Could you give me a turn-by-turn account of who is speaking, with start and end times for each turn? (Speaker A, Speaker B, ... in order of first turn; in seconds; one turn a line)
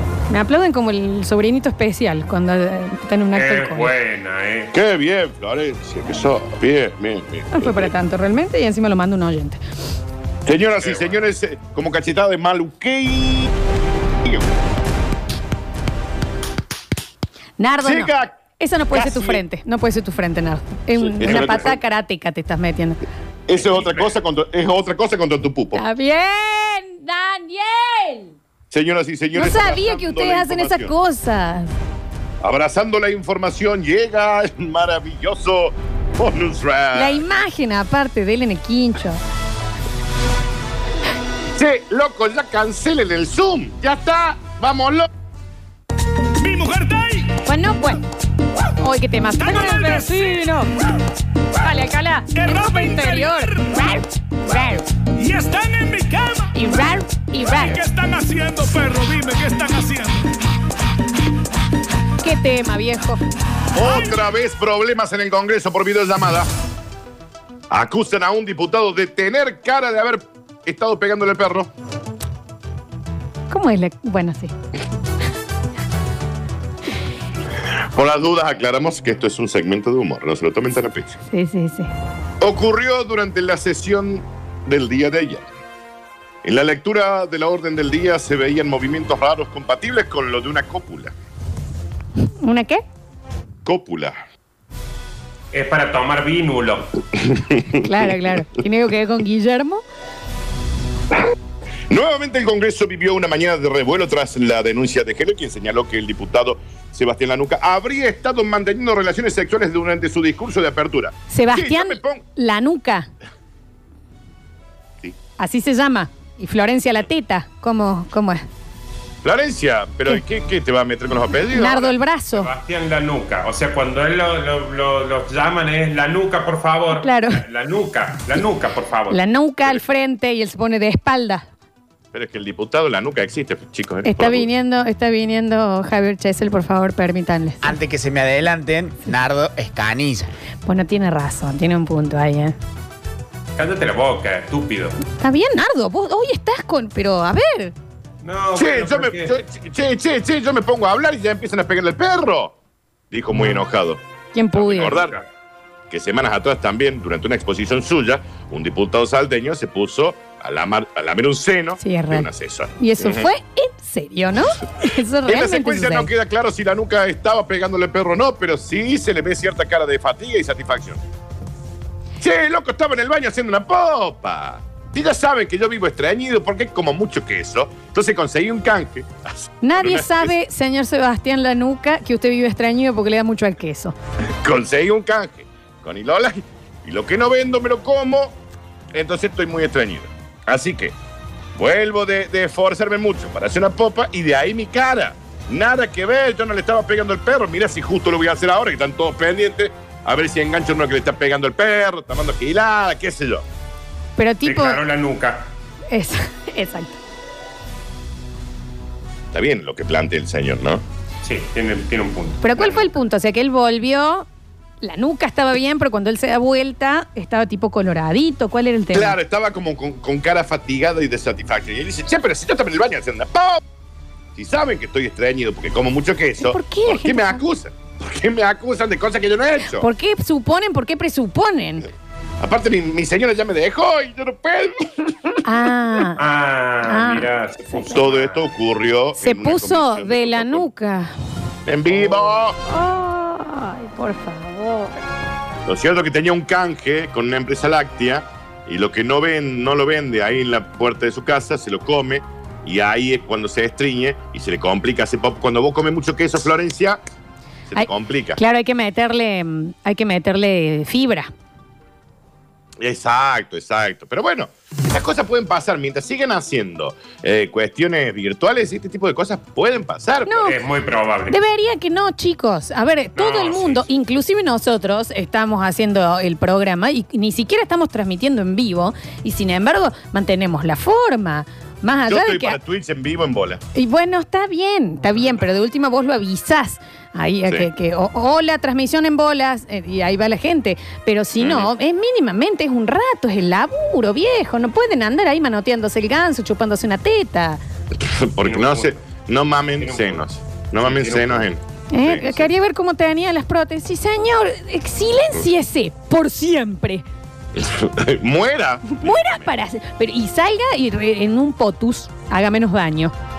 Speaker A: 0.3-3.9
Speaker B: 3.3-4.7
Speaker C: 4.7-7.9
Speaker A: 7.5-9.6
Speaker C: 10.5-13.5
Speaker B: 10.8-11.2
Speaker A: 17.6-23.0
Speaker C: 17.8-18.4
Speaker C: 18.9-19.4
Speaker C: 21.1-21.8
Speaker C: 23.5-25.8
Speaker B: 23.6-24.1
Speaker A: 25.7-28.4
Speaker C: 28.7-30.9
Speaker A: 29.4-31.7
Speaker C: 32.4-37.2
Speaker A: 36.9-39.2
Speaker C: 41.5-45.1
Speaker D: 46.4-47.3
Speaker A: 47.4-48.0
Speaker A: 48.8-50.7
Speaker D: 49.4-50.5
Speaker A: 51.5-54.9
Speaker D: 52.3-53.6
Speaker D: 55.1-56.5
Speaker A: 56.5-57.9
Speaker D: 57.4-60.3
Speaker A: 62.2-63.2
Speaker C: 63.8-66.5
Speaker D: 63.9-64.2
Speaker C: 67.7-71.7
Speaker A: 73.5-74.5
Speaker C: 77.7-81.2
Speaker A: 81.3-81.9
Speaker C: 82.4-85.4
Speaker C: 86.4-91.1
Speaker A: 92.4-92.8
Speaker C: 93.6-94.2
Speaker B: 95.5-96.9
Speaker C: 97.2-97.8
Speaker A: 97.7-99.8
Speaker C: 101.9-112.2
Speaker A: 111.3-113.1
Speaker A: 115.4-118.4
Speaker C: 119.2-122.0
Speaker A: 121.5-122.5
Speaker B: 122.3-129.2
Speaker A: 126.9-127.4
Speaker A: 129.1-131.4
Speaker C: 132.1-134.5
Speaker A: 134.0-137.8
Speaker E: 137.6-140.3
Speaker A: 140.6-142.5
Speaker B: 143.6-145.0
Speaker A: 145.2-147.7
Speaker B: 148.2-149.3
Speaker C: 148.5-152.5
Speaker C: 153.1-154.0
Speaker A: 154.3-155.0
Speaker C: 154.5-155.2
Speaker B: 154.6-155.2
Speaker C: 155.9-163.3
Speaker A: 161.8-166.1
Speaker C: 165.2-171.0
Speaker C: 172.2-180.3
Speaker A: 179.6-184.0
Speaker C: 184.4-188.4
Speaker C: 188.9-190.9
Speaker C: 191.6-203.4
Speaker A: 204.2-204.8
Speaker B: 204.4-205.5
Speaker A: 205.9-207.0
Speaker C: 209.3-210.8
Speaker B: 211.2-212.9
Speaker A: 212.4-214.3
Speaker A: 214.8-219.2
Speaker C: 218.9-223.6
Speaker C: 224.3-229.9
Speaker A: 226.4-227.4
Speaker A: 229.6-231.9
Speaker C: 232.4-235.4
Speaker A: 235.4-236.2
Speaker B: 236.2-238.5
Speaker A: 236.8-237.9
Speaker C: 237.9-240.7
Speaker A: 239.2-241.1
Speaker C: 241.7-242.6
Speaker A: 242.6-245.0
Speaker C: 245.7-257.0
Speaker C: 257.7-258.4
Speaker A: 257.8-261.3
Speaker C: 262.8-270.4
Speaker A: 270.2-270.6
Speaker B: 270.4-271.4
Speaker A: 271.3-282.6
Speaker B: 273.2-273.9
Speaker C: 282.1-283.6
Speaker A: 283.8-297.6
Speaker C: 291.4-291.7
Speaker C: 297.9-302.5
Speaker B: 298.4-298.9
Speaker B: 299.8-301.5
Speaker A: 301.9-307.0
Speaker C: 307.5-309.5
Speaker A: 308.9-313.1